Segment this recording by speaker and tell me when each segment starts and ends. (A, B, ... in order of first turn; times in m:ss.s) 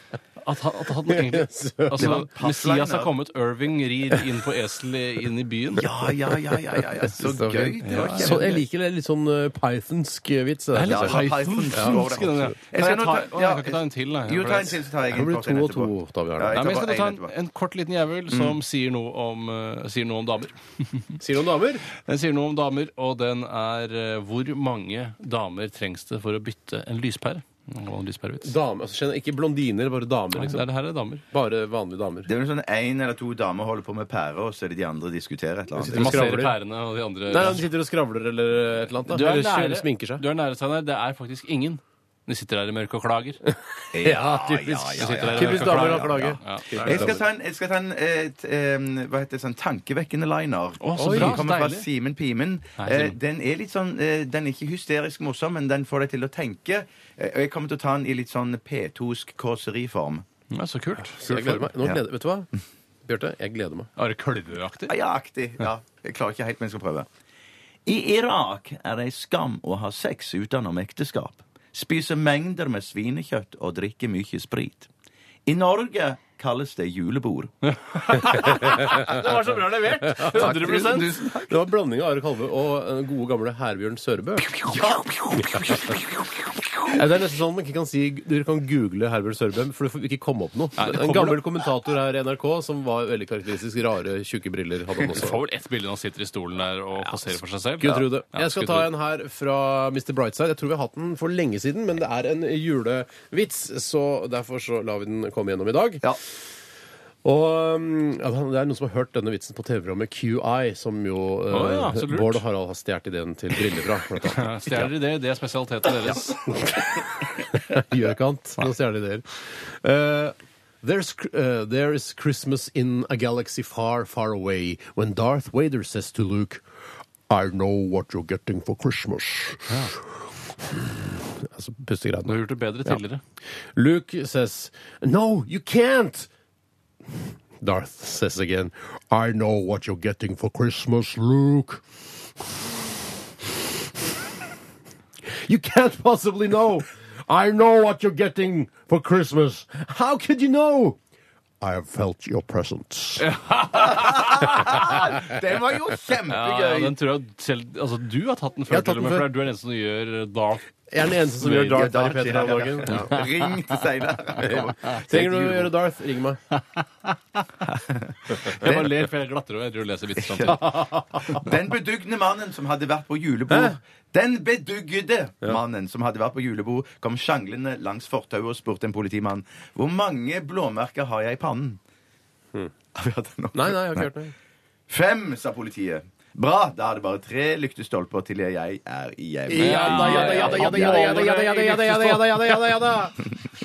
0:00.4-0:05.9 A
0:01.1-0:02.2 B
0:02.0-0:03.1 C
0:05.8-0:08.6 C
0:07.0-0:11.2 B
0:07.8-0:08.6 A
0:10.7-0:14.8 A
0:10.9-0:17.3 C
0:11.7-0:12.5 B
0:15.1-0:16.6 B
0:16.5-0:21.2 A
0:18.3-0:18.6 C
0:21.2-0:21.9 B
0:21.9-0:28.5 A
0:28.4-0:30.7 B
0:30.3-0:31.2 A
0:31.3-0:32.3 B
0:32.3-0:36.4 C
0:35.8-0:36.6 B
0:35.9-0:37.6 A
0:37.3-0:40.2 B
0:39.1-0:43.4 A
0:43.5-0:47.2 B
0:43.9-1:00.2 C
0:45.0-0:47.1 A
0:50.8-0:51.9 A
0:51.0-0:51.4 B
0:52.8-0:53.2 A
1:00.5-1:01.7 A
1:01.2-1:02.5 B
1:03.1-1:03.9 B
1:04.0-1:04.9 A
1:04.9-1:07.1 C
1:07.9-1:14.9 C
1:15.5-1:17.5 C
1:17.6-1:21.2 A
1:20.1-1:21.0 B
1:20.3-1:21.5 C
1:21.5-1:24.5 B
1:24.7-1:25.1 C
1:25.2-1:26.0 A
1:26.9-1:35.4 B
1:30.8-1:31.4 A
1:35.1-1:38.9 A
1:37.1-1:46.0 B
1:47.2-1:54.9 B
1:51.5-1:52.4 A
1:54.2-1:56.5 A
1:56.5-2:06.6 B
2:07.3-2:09.9 B
2:09.7-2:09.9 A
2:10.6-2:13.0 B
2:12.3-2:13.2 A
2:13.8-2:16.3 B
2:17.6-2:21.8 B
2:25.4-2:31.0 B
2:31.6-2:33.3 B
2:33.2-2:34.9 A
2:33.7-2:37.0 C
2:36.3-2:40.7 A
2:38.7-2:39.3 B
2:40.9-2:43.1 B
2:41.4-2:45.7 C
2:44.4-2:46.4 B
2:47.7-2:48.9 C
2:48.4-2:50.8 A
2:50.2-2:50.6 C
2:50.5-2:51.4 B
2:51.3-3:01.8 C
2:53.5-2:53.8 B
3:03.0-3:04.1 C
3:03.5-3:04.3 B
3:04.9-3:11.3 C
3:09.5-3:13.2 B
3:09.6-3:12.8 A